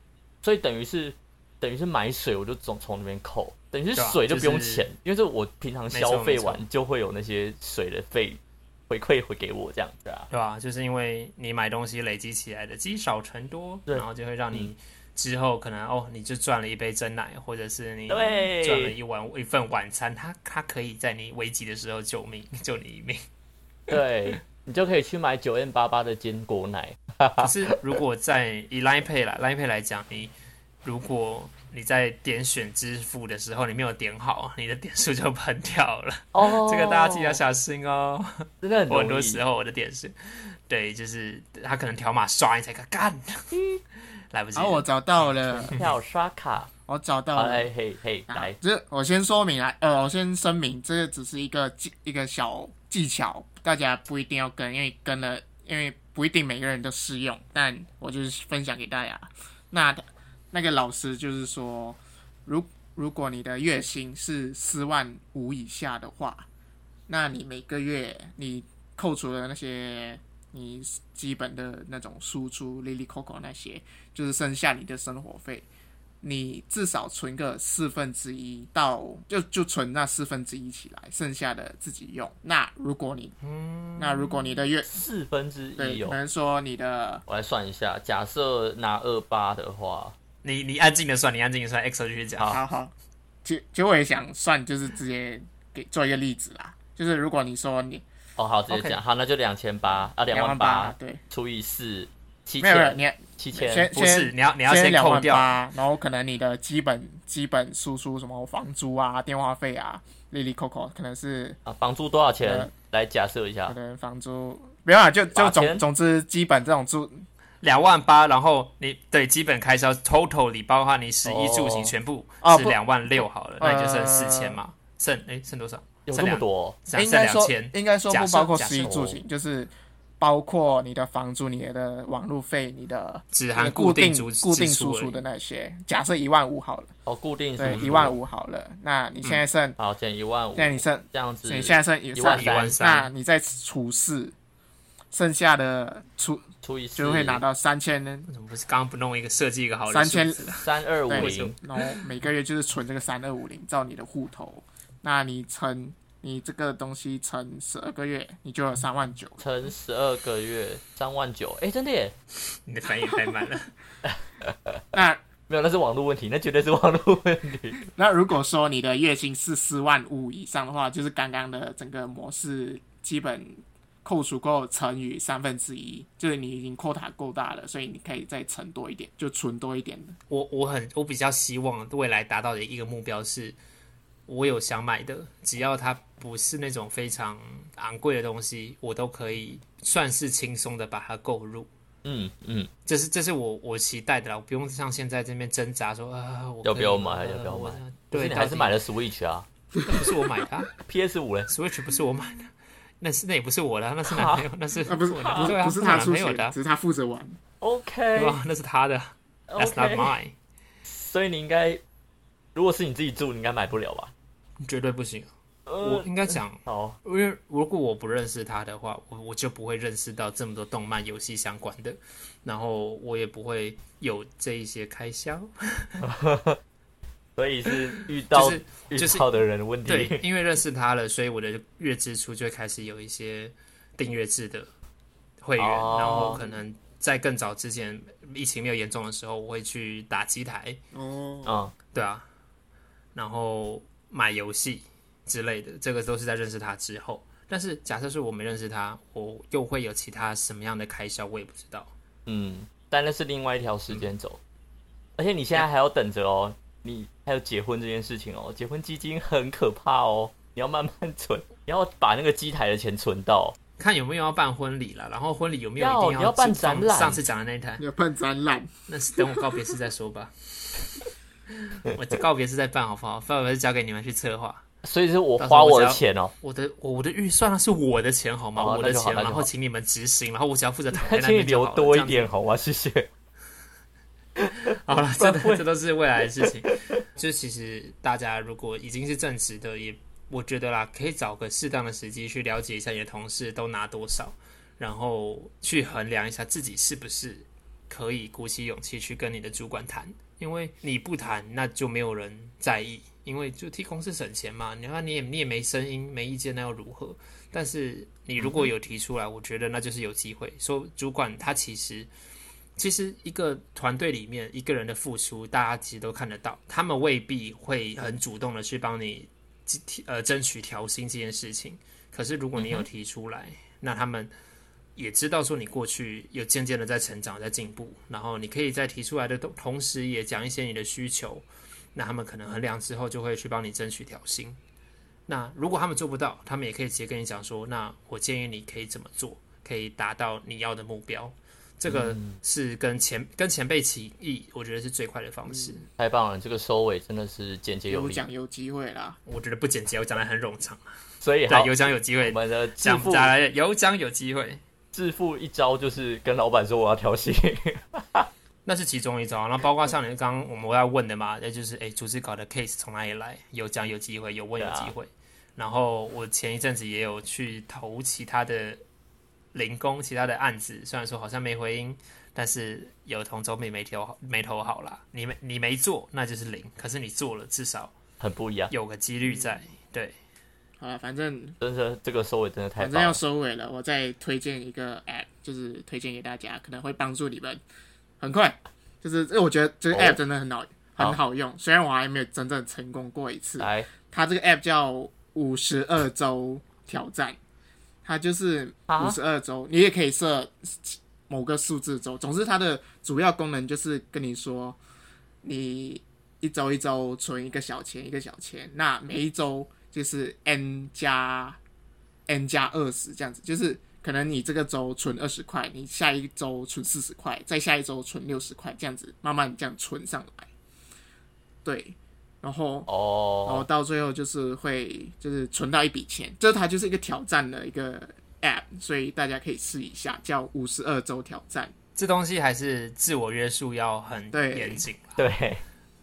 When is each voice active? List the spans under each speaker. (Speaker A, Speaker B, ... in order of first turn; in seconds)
Speaker A: 0.4-10.3, 13.9-14.7, 18.1-18.9, 23.9-27.7, 36.3-37.4, 38.6-39.4, 45.5-46.7, 47.4-48.6, 84.8-86.2, 87.3-90.2, 98.4-103.9, 111.7-113.8, 115.3-115.8, 121.2-121.9, 126.0-126.8, 128.8-129.2, 137.1-138.2, 139.8-142.8, 146.6-147.4, 150.5-151.6, 159.4-162.1, 164.0-164.8, 165.5-167.8, 192.0-192.7, 196.6-199.4, 200.8-201.5, 204.0-204.5, 205.1-205.5, 207.6-208.4, 209.5-210.2, 210.8-211.8, 212.5-214.1, 215.7-217.0, 226.0-226.6, 227.4-230.2, 235.6-236.4, 241.4-241.7, 252.2-254.4, 255.2-263.6, 265.8-267.2, 274.8-276.3, 278.6-279.5, 280.9-283.1, 284.4-285.6, 286.4-287.0, 308.4-308.7, 322.6-322.9, 341.9-342.4, 346.0-348.2, 351.2-353.3, 354.9-358.3, 364.6-364.9, 378.2-378.7, 381.6-383.2, 389.9-390.2, 393.6-393.9, 398.9-399.2, 422.9-423.7, 435.2-435.6
Speaker B: 4.0-4.8, 5.9-6.6, 10.3-23.2, 27.4-30.3, 30.8-43.6, 44.3-44.9, 83.4-84.6, 90.4-92.6, 98.7-99.0, 103.9-105.6, 117.6-129.0, 133.3-135.2, 137.7-138.0, 142.2-143.1, 148.3-152.0, 162.7-163.7, 180.3-183.6, 184.3-191.7, 192.8-198.8, 199.8-200.7, 201.5-206.6, 208.1-210.3, 214.6-226.0, 228.3-229.3, 229.8-234.7, 235.4-240.8, 241.9-242.2, 243.1-251.9, 263.8-267.8, 268.9-271.1, 271.7-274.6, 275.4-282.3, 284.9-312.1, 312.8-324.3, 324.9-334.6, 335.3-345.9, 349.2-350.8, 351.5-354.6, 358.6-368.8, 369.5-377.9, 378.7-380.1, 431.9-435.2
Speaker C: 44.5-45.9, 46.9-47.7, 48.3-66.5, 67.1-75.7, 76.2-83.3, 84.0-85.0, 85.8-87.2, 92.5-92.9, 93.4-98.0, 100.3-101.2, 102.6-111.6, 112.4-112.7, 113.7-117.2, 122.4-124.6, 126.9-136.9, 137.6-139.8, 140.6-144.3, 145.1-148.3, 149.9-150.6, 151.1-159.4, 164.9-165.2, 167.9-180.2, 199.8-200.1, 204.8-207.4, 240.9-241.6, 267.8-269.6, 347.9-349.2, 380.8-381.6, 382.8-387.6, 388.2-397.4, 398.0-404.8, 405.4-411.6, 412.3-420.5, 421.6-422.9, 423.4-431.7, 434.3-434.8